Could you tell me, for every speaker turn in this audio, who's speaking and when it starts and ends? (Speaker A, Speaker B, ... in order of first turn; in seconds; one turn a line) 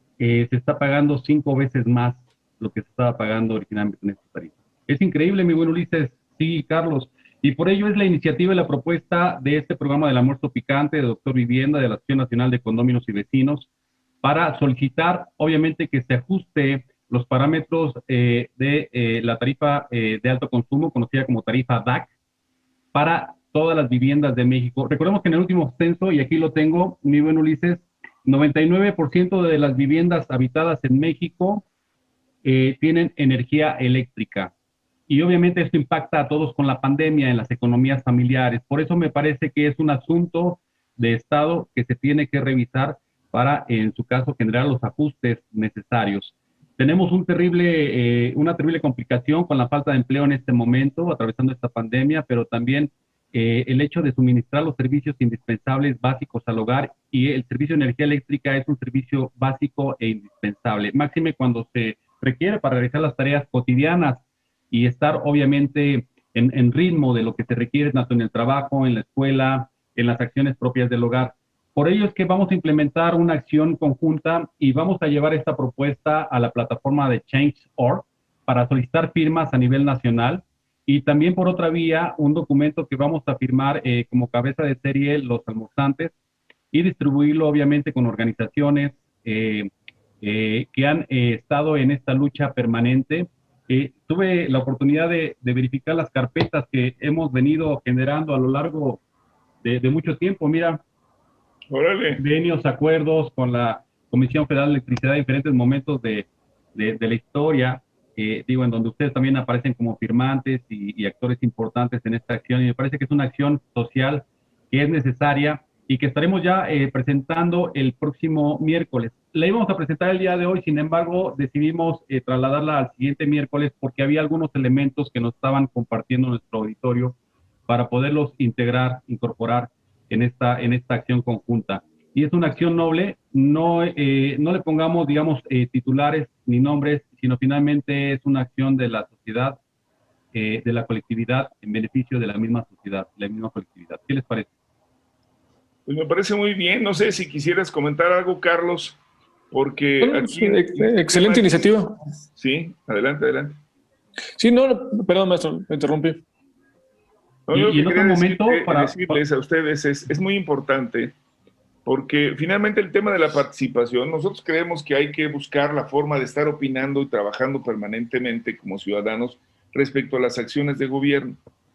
Speaker A: 0.2-13.7
Speaker A: 14.2-22.1
Speaker A: 22.9-31.6
Speaker A: 32.4-34.5
Speaker A: 35.1-86.1
Speaker A: 86.7-89.7
Speaker A: 90.2-99.0
Speaker A: 99.6-100.8
Speaker B: 101.7-102.2
Speaker A: 102.2-127.2
Speaker A: 127.7-139.6
Speaker A: 140.3-144.5
Speaker B: 145.9-149.0
Speaker B: 149.5-151.8
Speaker C: 150.0-152.0
Speaker B: 152.3-153.6
Speaker C: 154.4-156.2
Speaker B: 157.5-161.2
Speaker A: 157.5-159.2
Speaker B: 161.8-171.4